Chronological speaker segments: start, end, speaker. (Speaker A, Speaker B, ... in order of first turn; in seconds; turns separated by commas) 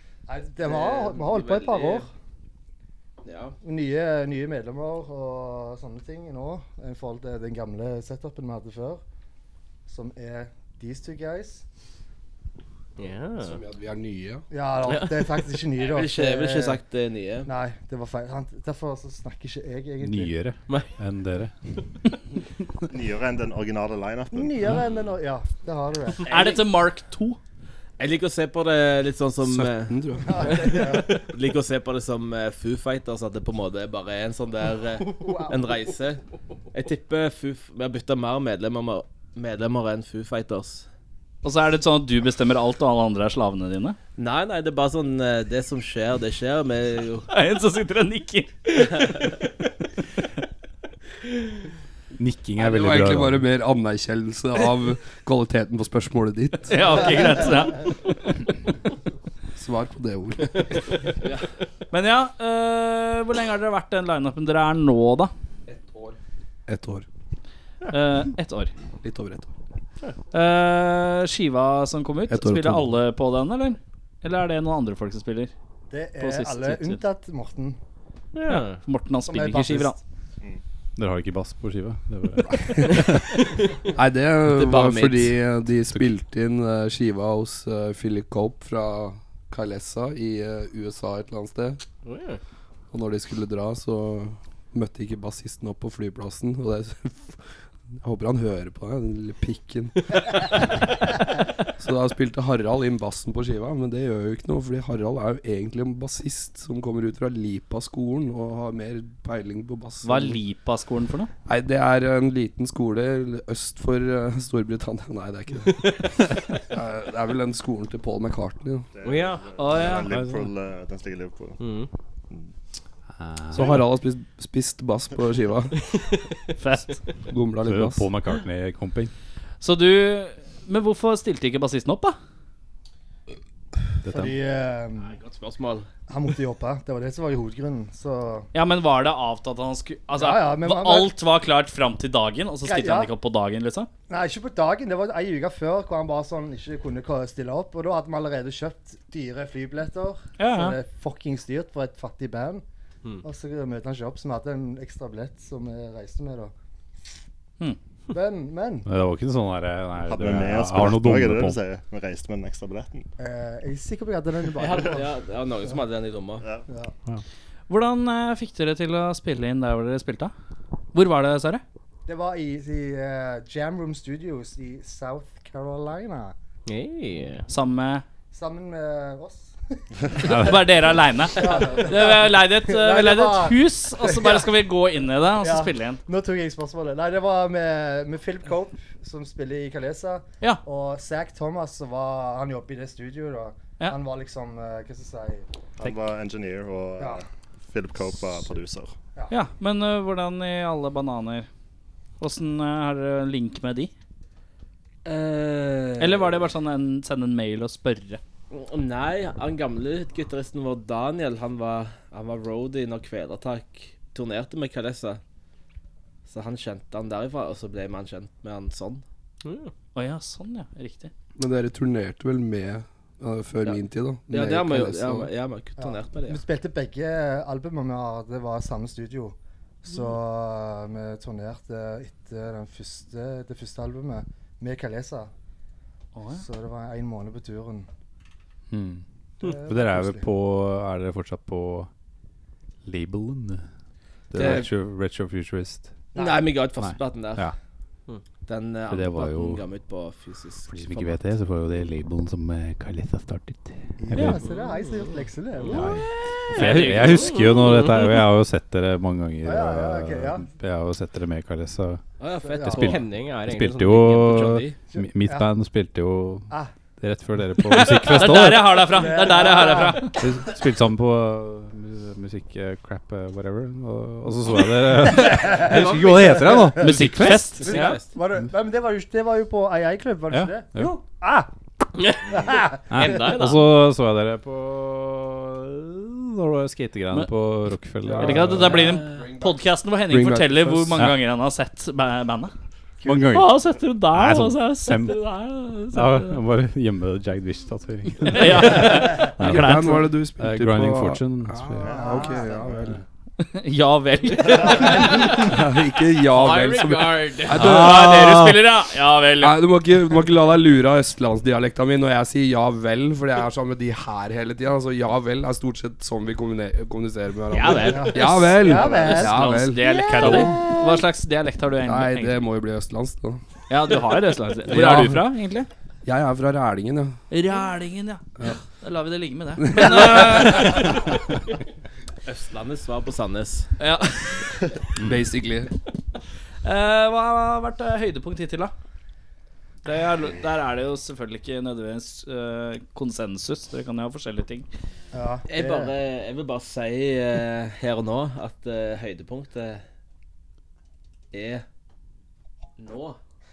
Speaker A: 0.3-2.1, Speaker B: 0.6-2.1, Speaker B: 3.2-3.5, Speaker A: 3.6-9.0, Speaker A: 9.9-11.6, Speaker C: 13.0-13.6, Speaker D: 13.4-14.4, Speaker A: 14.5-16.8, Speaker B: 15.8-17.5, Speaker A: 17.4-20.4, Speaker E: 20.0-21.8, Speaker F: 22.9-24.6, Speaker A: 24.3-26.4, Speaker G: 26.3-27.4, Speaker B: 28.0-30.0, Speaker D: 29.4-30.8, Speaker A: 30.2-31.2, Speaker B: 30.7-36.2, Speaker A: 35.2-35.6, Speaker B: 36.7-40.9, Speaker G: 41.4-44.0, Speaker B: 44.2-47.2, Speaker G: 47.3-49.2, Speaker E: 52.2-53.4, Speaker D: 52.6-57.2, Speaker G: 56.7-57.9, Speaker D: 59.6-61.0, Speaker G: 61.9-65.3, Speaker D: 66.7-67.0, Speaker G: 67.9-68.7, Speaker D: 69.0-69.5, Speaker G: 70.3-75.5, Speaker D: 72.3-72.9, Speaker A: 75.9-77.8, Speaker G: 76.2-77.0, Speaker C: 78.3-78.8, Speaker G: 78.5-80.0, Speaker A: 79.2-80.0, Speaker E: 81.0-83.2, Speaker D: 82.8-83.0, Speaker D: 83.9-91.8, Speaker C: 84.5-85.3, Speaker C: 92.0-92.4, Speaker D: 92.9-97.4, Speaker D: 98.0-100.8, Speaker D: 101.8-110.4, Speaker G: 110.0-111.3, Speaker D: 111.5-118.9, Speaker F: 118.9-121.7, Speaker C: 119.0-119.4, Speaker G: 119.5-120.1, Speaker E: 120.0-120.5, Speaker C: 121.6-121.9, Speaker E: 123.2-123.7, Speaker D: 123.5-125.8, Speaker G: 123.5-123.8, Speaker G: 126.6-127.0, Speaker D: 127.3-128.1, Speaker E: 127.6-129.1, Speaker G: 129.6-132.2, Speaker E: 134.0-134.3, Speaker A: 134.1-135.1, Speaker B: 135.0-135.9, Speaker A: 136.1-138.5, Speaker G: 138.5-143.9, Speaker A: 140.1-141.1, Speaker A: 142.6-143.1, Speaker A: 144.1-152.6, Speaker G: 150.4-150.8, Speaker A: 153.2-156.5, Speaker A: 158.1-158.9, Speaker E: 158.8-161.6, Speaker F: 160.1-163.1, Speaker A: 163.2-165.1, Speaker B: 164.6-166.4, Speaker F: 166.4-166.7, Speaker A: 166.7-166.9, Speaker G: 167.7-170.3, Speaker G: 170.9-171.6, Speaker A: 172.1-176.3, Speaker C: 176.7-177.4, Speaker G: 177.5-178.0, Speaker A: 178.3-179.5, Speaker A: 180.1-180.5, Speaker G: 180.2-186.0, Speaker E: 180.3-180.6, Speaker A: 181.3-184.5, Speaker A: 185.4-195.4, Speaker F: 195.8-198.9, Speaker G: 199.3-201.5, Speaker G: 202.2-203.9, Speaker B: 205.0-206.4, Speaker G: 206.0-208.2, Speaker B: 208.5-215.2, Speaker B: 216.2-219.0, Speaker C: 219.4-219.7, Speaker G: 219.9-221.1, Speaker D: 221.4-225.3, Speaker B: 224.3-226.4, Speaker A: 225.8-235.3, Speaker G: 236.1-236.4, Speaker A: 236.3-237.9, Speaker E: 238.7-239.0, Speaker A: 239.4-240.2, Speaker E: 239.7-241.9, Speaker E: 242.8-243.6, Speaker E: 244.3-245.9, Speaker B: 244.3-244.7, Speaker A: 246.1-246.5, Speaker B: 246.1-247.5, Speaker E: 246.8-247.5, Speaker B: 248.4-251.2, Speaker E: 248.9-249.6, Speaker E: 250.7-254.4, Speaker A: 254.0-256.0, Speaker C: 254.4-255.1, Speaker E: 255.7-256.0, Speaker E: 256.5-262.0, Speaker G: 256.5-257.4, Speaker B: 256.6-256.9, Speaker C: 256.9-257.9, Speaker A: 259.4-260.4, Speaker B: 262.2-263.1, Speaker A: 262.5-262.9, Speaker E: 262.6-268.9, Speaker C: 262.8-264.6, Speaker B: 264.3-264.8, Speaker A: 264.9-265.5, Speaker G: 268.0-270.2, Speaker A: 268.8-270.3, Speaker E: 270.2-277.6, Speaker A: 275.0-277.0, Speaker G: 276.8-278.0, Speaker A: 277.6-281.5, Speaker B: 277.6-278.1, Speaker E: 280.3-280.9, Speaker A: 282.1-283.3, Speaker E: 282.9-288.9, Speaker B: 283.0-283.6, Speaker D: 288.1-291.0, Speaker G: 288.2-292.5, Speaker E: 290.9-291.2, Speaker A: 293.0-293.3, Speaker E: 293.0-295.2, Speaker G: 293.3-296.4, Speaker E: 295.9-301.9, Speaker G: 298.2-300.1, Speaker D: 298.8-303.0, Speaker A: 301.8-302.7, Speaker F: 301.8-302.8, Speaker G: 303.4-305.5, Speaker A: 304.7-304.9, Speaker D: 305.2-308.4, Speaker B: 306.5-307.2, Speaker G: 306.5-309.6, Speaker E: 307.5-308.6, Speaker D: 309.4-320.5, Speaker G: 317.5-322.4, Speaker A: 317.9-321.0, Speaker F: 318.9-319.1, Speaker D: 321.8-323.4, Speaker G: 323.7-325.7, Speaker D: 324.7-325.3, Speaker D: 326.0-327.2, Speaker G: 327.3-331.0, Speaker D: 329.6-330.5, Speaker B: 332.2-333.7, Speaker G: 333.8-334.4, Speaker D: 335.0-335.7, Speaker G: 336.6-338.7, Speaker G: 339.8-344.7, Speaker A: 345.1-345.9, Speaker B: 345.5-349.8, Speaker B: 351.3-351.6, Speaker B: 352.8-353.2